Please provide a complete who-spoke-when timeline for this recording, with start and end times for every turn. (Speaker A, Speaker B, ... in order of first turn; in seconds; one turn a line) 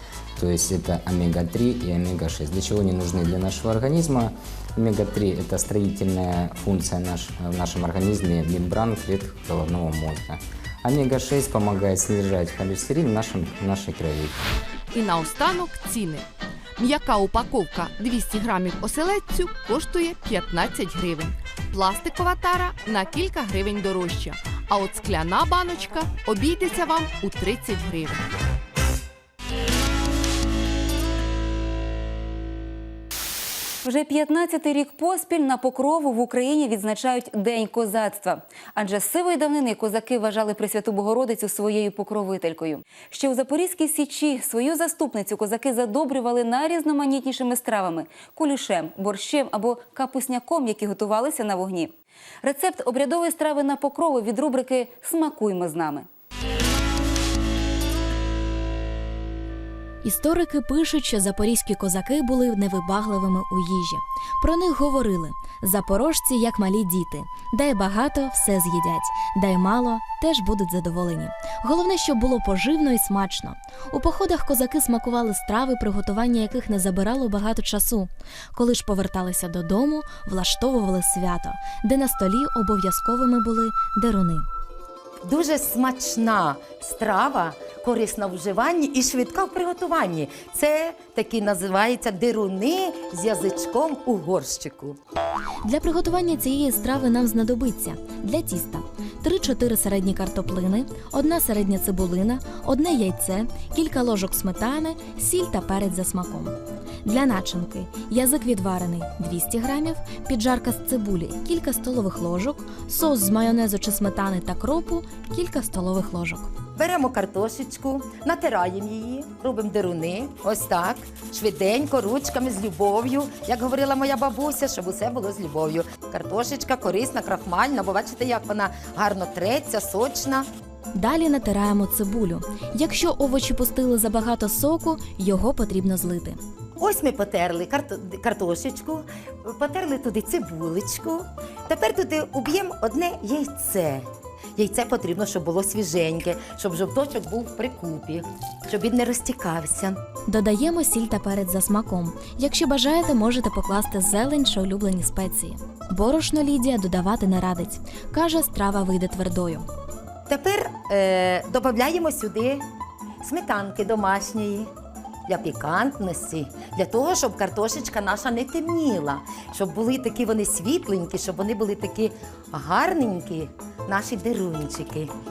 Speaker A: 0.4-14.3
Speaker B: 14.9-16.2
Speaker B: 16.8-28.3
Speaker C: 33.8-56.1
Speaker D: 60.0-84.5
Speaker E: 85.2-95.0
Speaker D: 95.7-116.5
Speaker E: 116.8-130.5
Speaker D: 130.9-136.4
Speaker E: 136.8-150.0
Speaker D: 150.3-159.7
Speaker E: 160.3-162.7
Speaker E: 163.2-164.7
Speaker E: 165.3-175.1